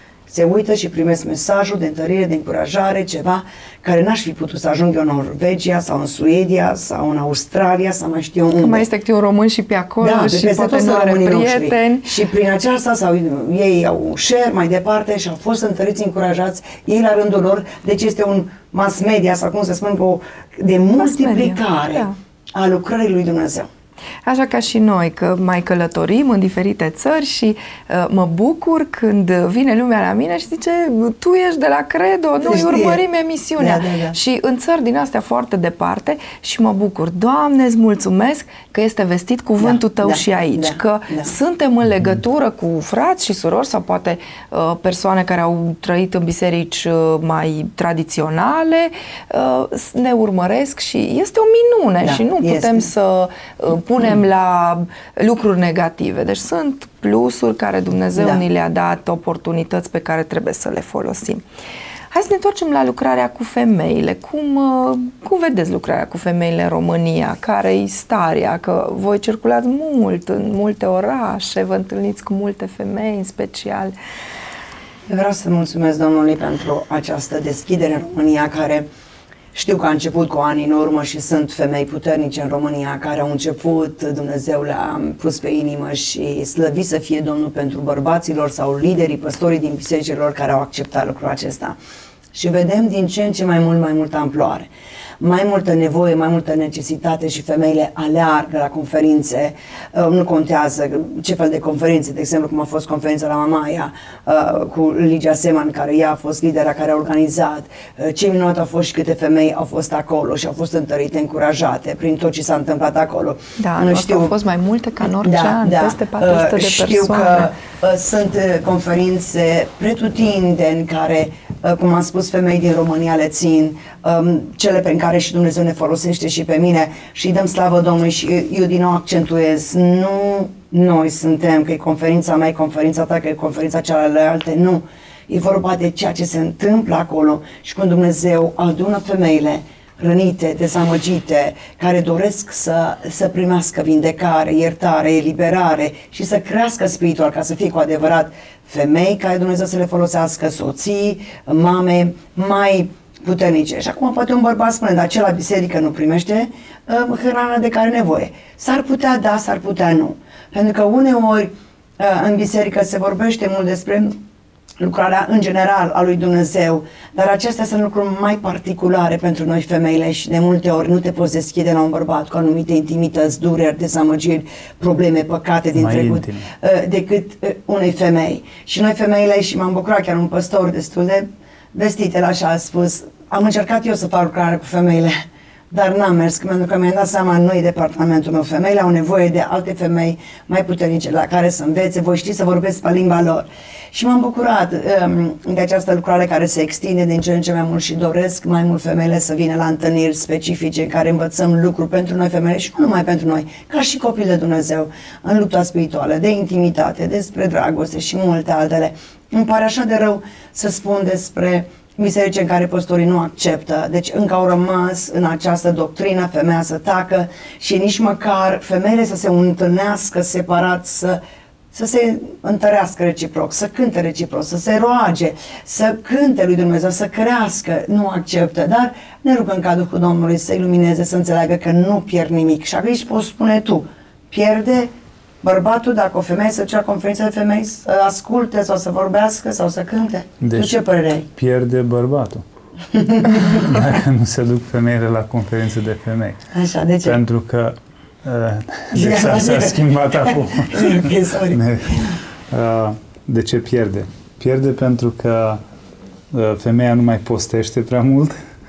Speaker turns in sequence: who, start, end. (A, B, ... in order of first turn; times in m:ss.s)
0:00.3-0:08.9 A
0:08.6-0:12.1 B
0:10.0-0:23.7 A
0:21.0-0:22.2 B
0:24.3-1:01.4 B
0:32.4-0:33.0 A
0:33.6-0:34.2 A
0:39.6-0:41.3 A
0:52.0-0:52.9 A
0:58.2-0:58.4 A
1:02.1-1:13.9 B
1:15.1-1:18.9 A
1:19.5-1:31.8 A
1:32.3-1:34.7 A
1:35.2-1:54.4 A
1:53.6-1:57.5 B
1:55.0-2:44.2 A
2:44.8-3:05.2 A
2:55.7-2:56.5 C
3:05.7-3:41.2 A
3:41.7-3:54.9 A
3:55.4-4:01.3 A
4:00.4-4:00.8 C
4:01.3-4:02.4 C
4:02.9-4:03.6 A
4:03.2-4:06.5 C
4:06.5-4:07.2 A
4:07.0-4:15.6 C
4:08.9-4:12.2 A
4:16.3-4:18.3 C